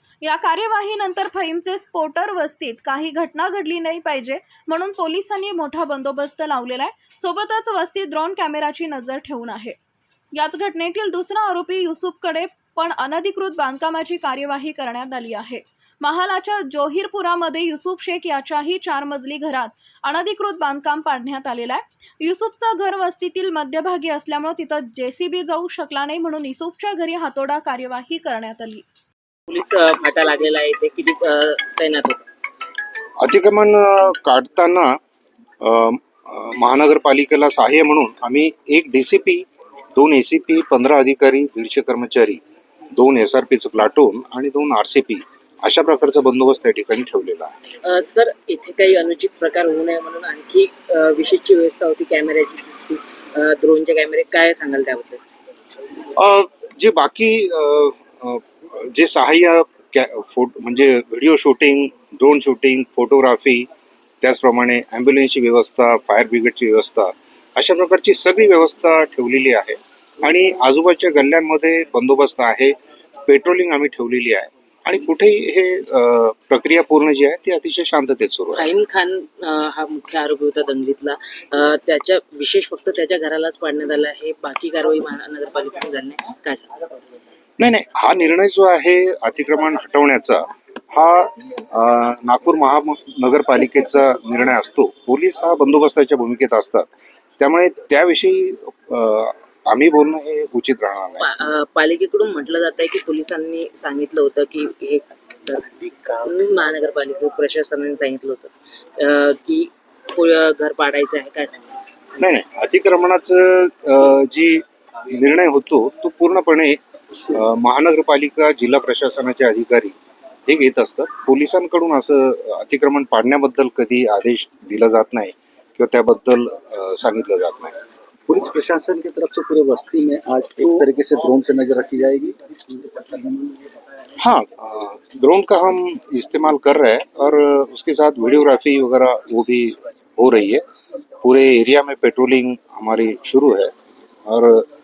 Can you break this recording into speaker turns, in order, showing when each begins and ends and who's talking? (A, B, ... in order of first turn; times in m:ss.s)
0:00.2-0:09.8 A
0:10.3-0:28.8 A
0:29.5-0:32.2 B
0:33.2-0:35.0 C
0:35.6-0:42.4 C
0:42.9-0:47.6 C
0:47.9-0:55.2 B
0:56.2-1:03.7 C
1:04.2-1:12.8 C
1:13.3-1:18.7 C
1:18.6-1:26.7 B
1:27.6-1:41.3 C
1:41.2-1:51.7 B
1:52.2-1:56.8 C
1:57.3-2:00.0 C
2:00.5-2:07.8 C
2:08.3-2:13.5 D
2:14.2-2:20.6 C
2:21.2-2:23.7 C
2:24.3-2:24.7 C